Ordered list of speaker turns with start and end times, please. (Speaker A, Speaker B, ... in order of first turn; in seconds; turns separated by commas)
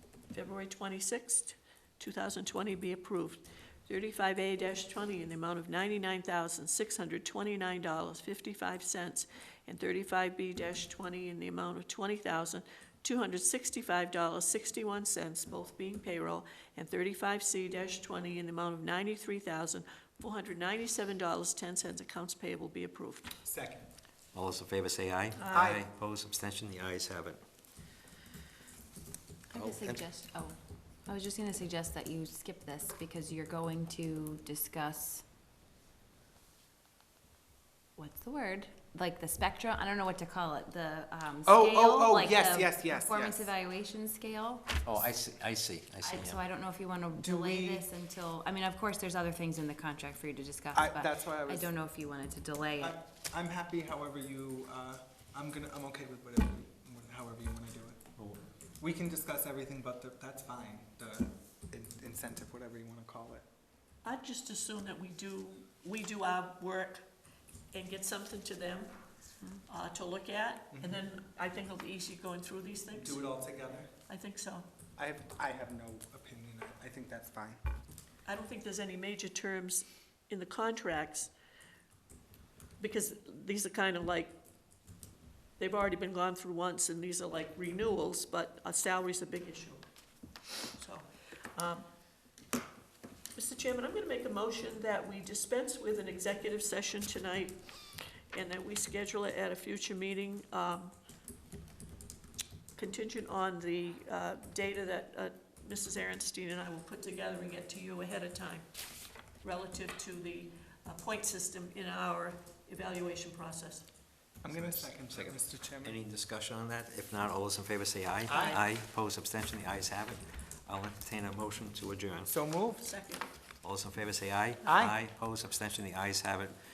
Speaker A: 0.3-23.4, Speaker B: 23.4-23.9, Speaker C: 24.3-27.4, Speaker A: 25.4-25.8, Speaker B: 25.5-25.8, Speaker D: 29.5-35.2, Speaker C: 29.5-30.0, Speaker D: 38.0-44.8, Speaker B: 41.5-43.5, Speaker C: 44.8-46.4, Speaker D: 46.0-53.0, Speaker B: 47.2-47.9, Speaker B: 50.7-51.7, Speaker B: 52.8-58.1, Speaker B: 58.8-63.4, Speaker A: 64.0-67.1, Speaker A: 67.7-69.0, Speaker A: 69.7-73.2, Speaker B: 70.7-71.0, Speaker B: 72.9-73.9, Speaker A: 74.1-74.7, Speaker B: 75.0-77.6, Speaker A: 78.2-81.3, Speaker A: 82.8-84.4, Speaker A: 85.6-89.9, Speaker A: 90.7-91.9, Speaker A: 93.3-97.6, Speaker A: 98.3-100.9, Speaker A: 102.8-108.7, Speaker A: 109.4-113.9, Speaker B: 114.4-116.0, Speaker C: 114.5-122.3, Speaker B: 118.3-118.6, Speaker A: 118.3-118.6, Speaker B: 122.3-122.9, Speaker A: 122.8-123.3, Speaker C: 123.6-126.5, Speaker B: 124.6-125.0